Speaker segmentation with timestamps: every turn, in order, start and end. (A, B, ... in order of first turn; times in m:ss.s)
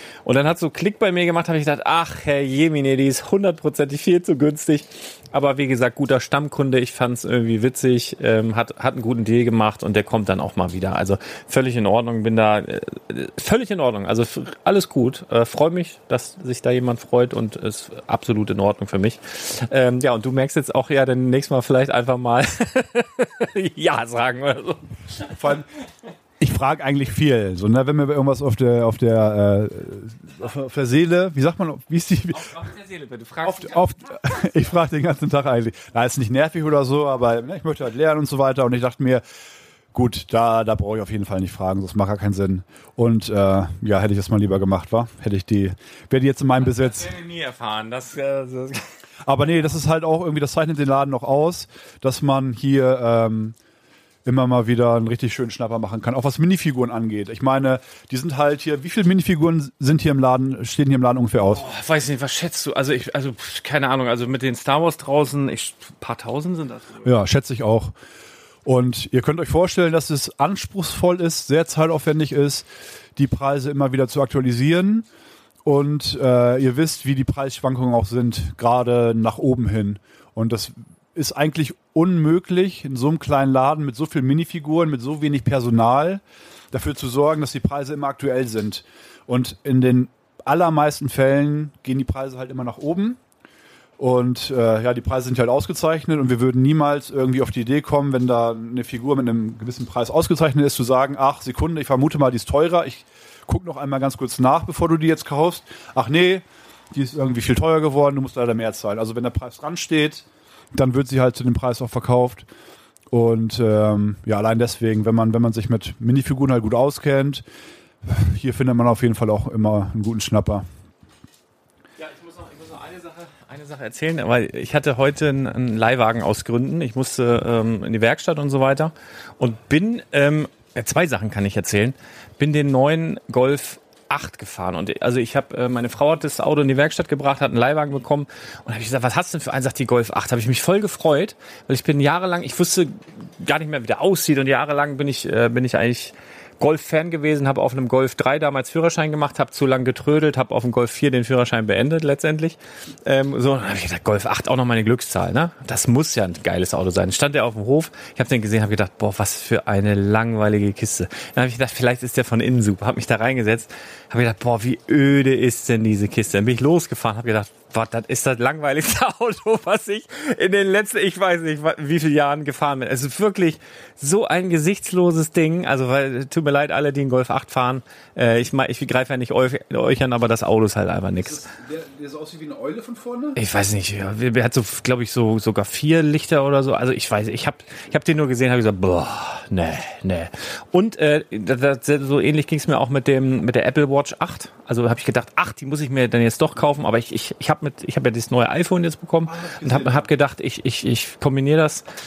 0:00.2-0:25.6 A
0:25.4-0:25.7 B
0:26.4-0:32.6 B
0:32.3-0:34.5 A
0:33.4-0:39.2 B
0:39.9-0:47.1 B
0:46.6-0:48.9 A
0:49.2-0:53.6 B
0:54.2-1:01.6 B
1:01.4-1:07.1 A
1:07.0-1:07.9 B
1:08.6-1:15.1 B
1:15.6-1:33.2 B
1:34.0-1:52.5 B
1:53.1-1:57.4 B
1:58.0-2:00.6 B
2:02.0-3:01.5 A
3:01.2-3:03.4 B
3:03.4-3:21.9 A
3:19.3-3:20.1 B